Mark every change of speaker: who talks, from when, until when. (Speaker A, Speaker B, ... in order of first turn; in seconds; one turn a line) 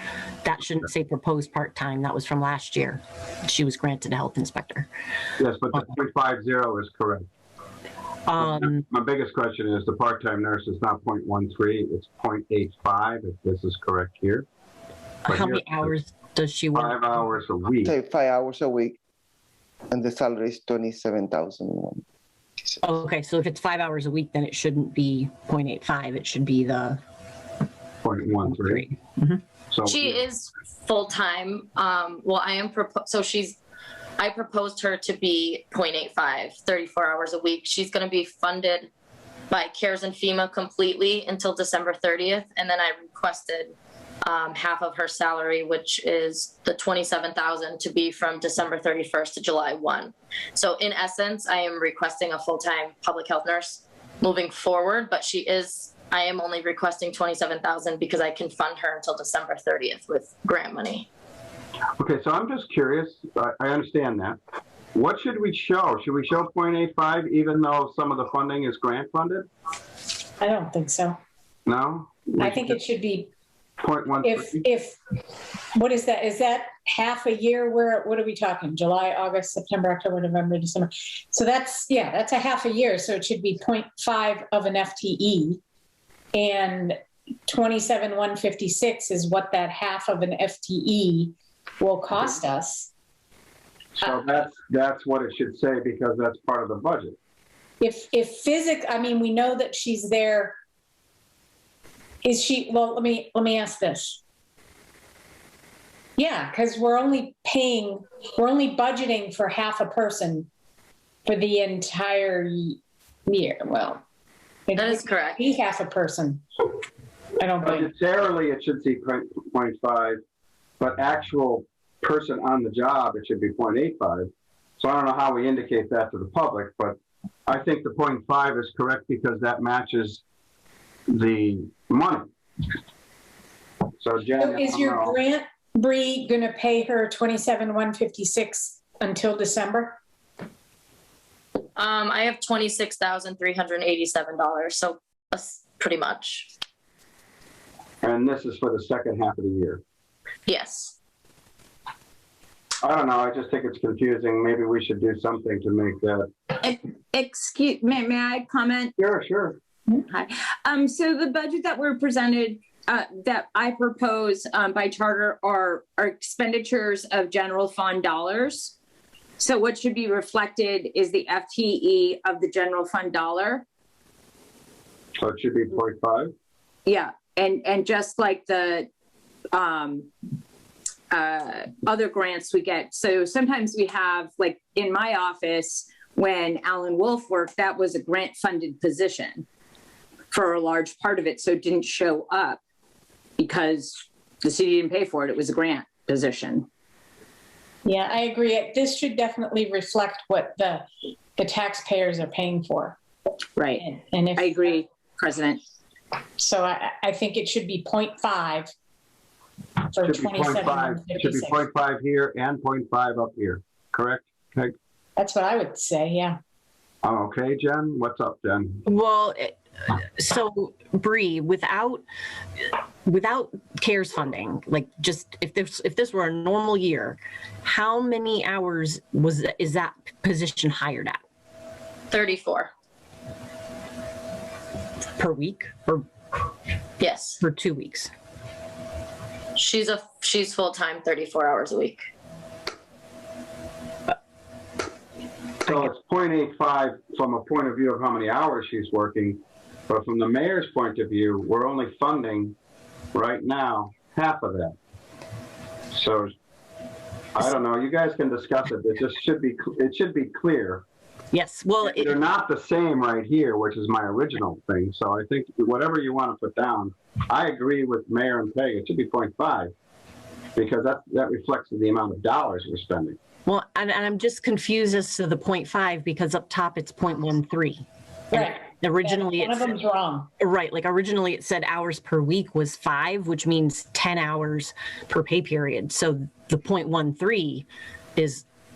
Speaker A: 0.4-4.9
Speaker B: 5.4-7.3
Speaker A: 8.3-8.8
Speaker B: 8.4-14.5
Speaker A: 15.3-17.0
Speaker B: 15.3-15.9
Speaker B: 16.7-17.9
Speaker C: 17.9-19.0
Speaker C: 19.9-22.0
Speaker A: 22.8-27.0
Speaker B: 28.0-28.9
Speaker A: 28.5-29.4
Speaker B: 29.7-30.2
Speaker D: 29.9-33.6
Speaker D: 34.2-38.9
Speaker D: 39.5-61.1
Speaker B: 62.0-64.4
Speaker B: 64.9-69.5
Speaker E: 70.4-71.2
Speaker B: 71.7-72.8
Speaker E: 72.4-73.3
Speaker B: 73.8-74.6
Speaker E: 74.2-75.0
Speaker E: 75.7-85.6
Speaker E: 86.3-92.9
Speaker B: 94.0-97.2
Speaker E: 97.8-100.5
Speaker E: 102.2-104.2
Speaker E: 106.2-110.5
Speaker E: 111.3-114.0
Speaker E: 114.7-116.4
Speaker D: 114.8-115.4
Speaker E: 117.4-117.9
Speaker B: 117.6-120.2
Speaker B: 120.8-130.2
Speaker B: 131.1-132.3
Speaker B: 134.0-135.2
Speaker E: 134.4-140.0
Speaker D: 141.8-146.5
Speaker B: 148.0-149.8
Speaker D: 150.5-151.0
Speaker B: 152.8-156.3
Speaker F: 156.6-158.9
Speaker B: 159.0-159.6
Speaker F: 160.0-168.8
Speaker F: 169.4-173.7
Speaker B: 175.2-176.3
Speaker F: 176.9-178.9
Speaker F: 179.5-180.1
Speaker F: 181.1-189.5
Speaker F: 190.3-192.6
Speaker F: 193.4-196.7
Speaker E: 197.8-200.8
Speaker E: 201.4-203.0
Speaker F: 203.6-205.6
Speaker E: 203.8-204.7
Speaker E: 206.4-208.7
Speaker E: 209.9-211.6
Speaker B: 210.0-214.7
Speaker E: 215.2-216.4
Speaker B: 217.0-218.8
Speaker A: 218.9-222.0
Speaker A: 223.1-231.2
Speaker D: 232.1-232.7
Speaker A: 235.2-236.1
Speaker D: 237.0-237.4
Speaker A: 237.4-238.1
Speaker D: 239.6-242.0
Speaker B: 245.7-252.6
Speaker B: 253.1-254.8
Speaker B: 255.9-256.3
Speaker B: 257.4-260.8
Speaker A: 261.3-262.2
Speaker B: 261.8-269.7
Speaker B: 270.6-273.2
Speaker A: 273.5-279.8
Speaker E: 278.3-280.3
Speaker A: 280.4-288.4